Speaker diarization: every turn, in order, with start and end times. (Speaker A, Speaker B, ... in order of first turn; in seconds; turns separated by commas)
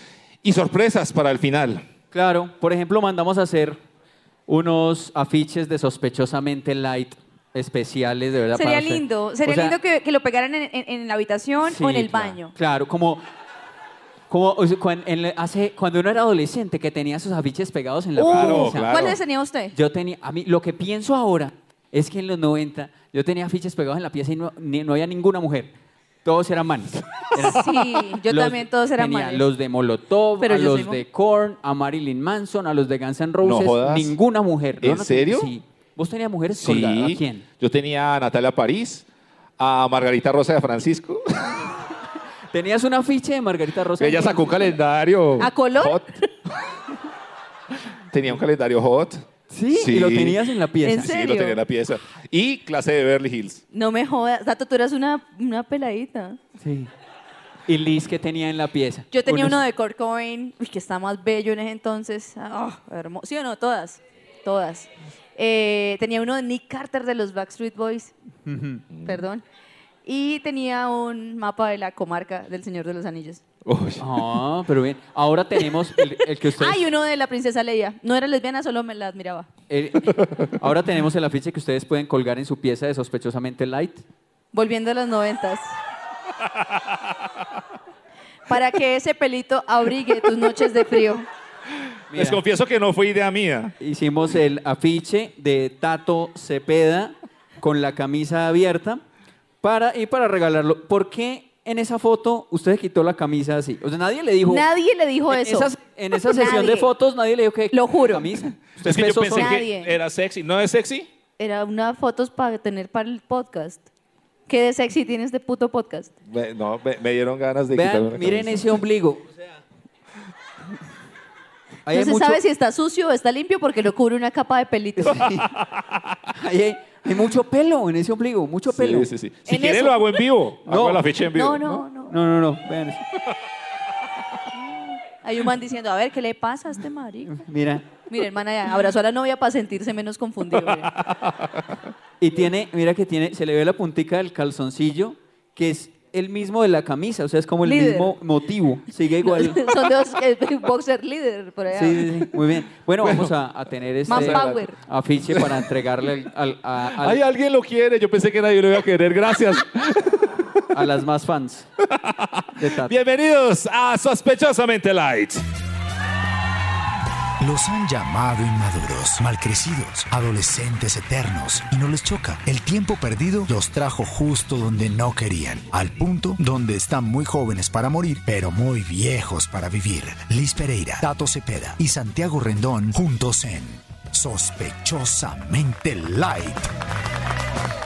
Speaker A: 0.4-1.8, Speaker B: 2.1-3.8, Speaker B: 4.5-9.8, Speaker C: 8.5-12.5, Speaker B: 11.6-13.2, Speaker B: 14.3-19.2, Speaker C: 18.2-19.7, Speaker A: 18.2-19.2, Speaker B: 19.7-25.7, Speaker B: 26.2-37.4, Speaker C: 27.3-29.4, Speaker C: 30.4-31.0, Speaker A: 33.4-34.1, Speaker A: 34.8-35.5, Speaker A: 36.5-39.0, Speaker A: 39.6-41.7, Speaker B: 42.5-44.7, Speaker A: 44.0-46.1, Speaker C: 45.4-46.1, Speaker A: 48.1-50.4, Speaker B: 49.5-51.1, Speaker C: 50.8-51.6, Speaker A: 50.9-53.6, Speaker C: 53.7-56.4, Speaker B: 56.6-56.9, Speaker B: 57.7-59.6, Speaker C: 59.1-68.1, Speaker B: 68.5-68.9, Speaker A: 68.9-69.2, Speaker C: 69.0-69.4, Speaker C: 70.0-73.4, Speaker A: 73.6-74.1, Speaker B: 74.0-76.8, Speaker C: 76.5-79.5, Speaker B: 79.7-84.0, Speaker A: 80.2-80.6, Speaker C: 84.5-85.8, Speaker A: 86.4-87.2, Speaker C: 88.5-91.3, Speaker B: 92.1-92.4, Speaker A: 92.1-93.7, Speaker B: 93.8-99.0, Speaker B: 99.6-104.7, Speaker C: 104.4-106.9, Speaker B: 105.3-109.5, Speaker C: 107.7-108.2, Speaker A: 108.8-111.1, Speaker C: 109.3-110.0, Speaker C: 111.4-113.8, Speaker C: 114.5-116.1, Speaker A: 116.3-118.7, Speaker B: 117.7-119.5, Speaker B: 121.8-122.4, Speaker C: 121.9-125.3, Speaker B: 125.0-125.5, Speaker A: 125.2-126.2, Speaker B: 126.3-129.1, Speaker A: 128.7-131.8, Speaker C: 129.5-130.2, Speaker B: 130.7-131.0, Speaker C: 131.3-132.2, Speaker B: 132.1-133.0, Speaker C: 135.0-137.4, Speaker B: 137.3-137.9, Speaker C: 138.1-140.9, Speaker A: 140.8-141.8, Speaker B: 142.2-149.7, Speaker C: 147.6-148.1, Speaker C: 149.2-152.3, Speaker B: 151.7-157.2, Speaker A: 153.0-153.3, Speaker C: 154.1-154.8, Speaker A: 154.1-154.4, Speaker A: 156.9-160.4, Speaker B: 160.7-161.7, Speaker A: 161.8-165.4, Speaker B: 162.6-162.9, Speaker D: 167.4-186.7